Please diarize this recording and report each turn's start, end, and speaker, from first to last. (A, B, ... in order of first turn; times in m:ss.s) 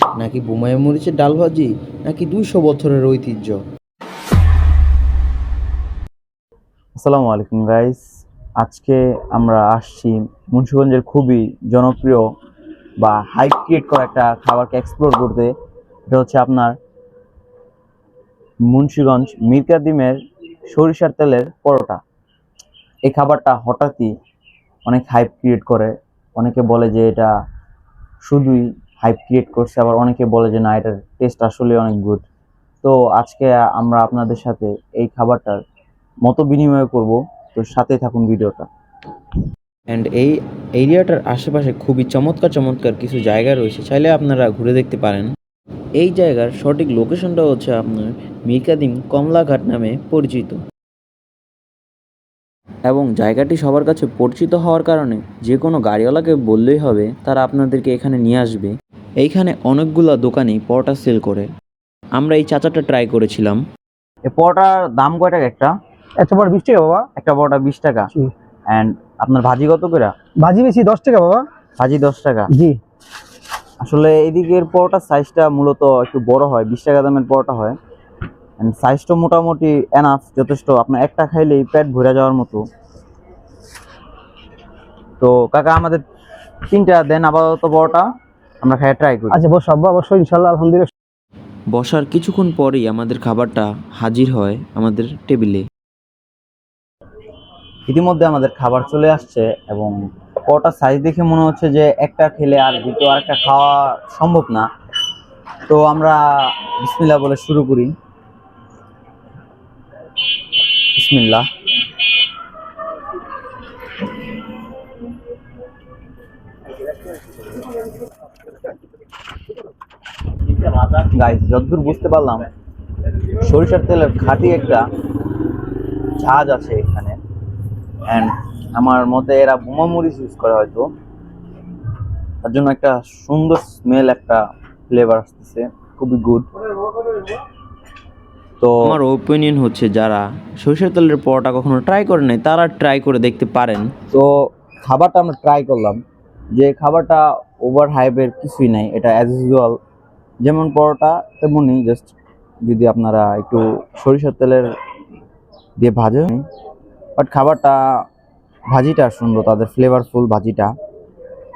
0:00.2-0:03.6 A
0:07.0-0:08.0 B
0:08.6-0:12.2 B
0:13.0-0:15.5 B
0:16.1-0:16.7 B
0:18.7-0:20.2 B
0:20.7-0:22.0 B
0:23.1-0:24.1 B
0:24.8-0:27.3 B
0:28.2-0:32.2 B
0:32.8-0:35.6 B
0:36.2-0:38.7 B
0:39.9-0:45.3 A
0:46.0-0:50.6 A
0:52.9-1:01.5 A
1:02.2-1:03.6 A
1:04.3-1:05.7 B
1:06.2-1:07.1 C
1:07.2-1:08.1 B
1:08.7-1:10.1 B
1:10.4-1:11.4 C
1:11.8-1:12.5 B
1:12.5-1:12.8 C
1:13.8-1:17.8 B
1:18.6-1:22.6 B
1:25.2-1:26.0 B
1:26.7-1:28.0 B
1:28.6-1:29.4 B
1:29.3-1:30.9 C
1:31.7-1:35.6 A
1:37.9-1:39.9 B
1:40.5-1:44.7 B
1:45.7-1:47.9 B
1:51.0-1:51.4 B
2:00.5-2:02.4 B
2:03.1-2:04.8 B
2:06.2-2:07.2 B
2:08.1-2:10.9 B
2:12.4-2:17.4 B
2:18.6-2:18.9 B
2:18.8-2:23.9 A
2:24.8-2:26.0 B
2:26.6-2:29.8 B
2:30.4-2:32.1 B
2:32.6-2:34.6 B
2:35.8-2:36.4 B
2:37.2-2:37.8 B
2:38.7-2:40.7 B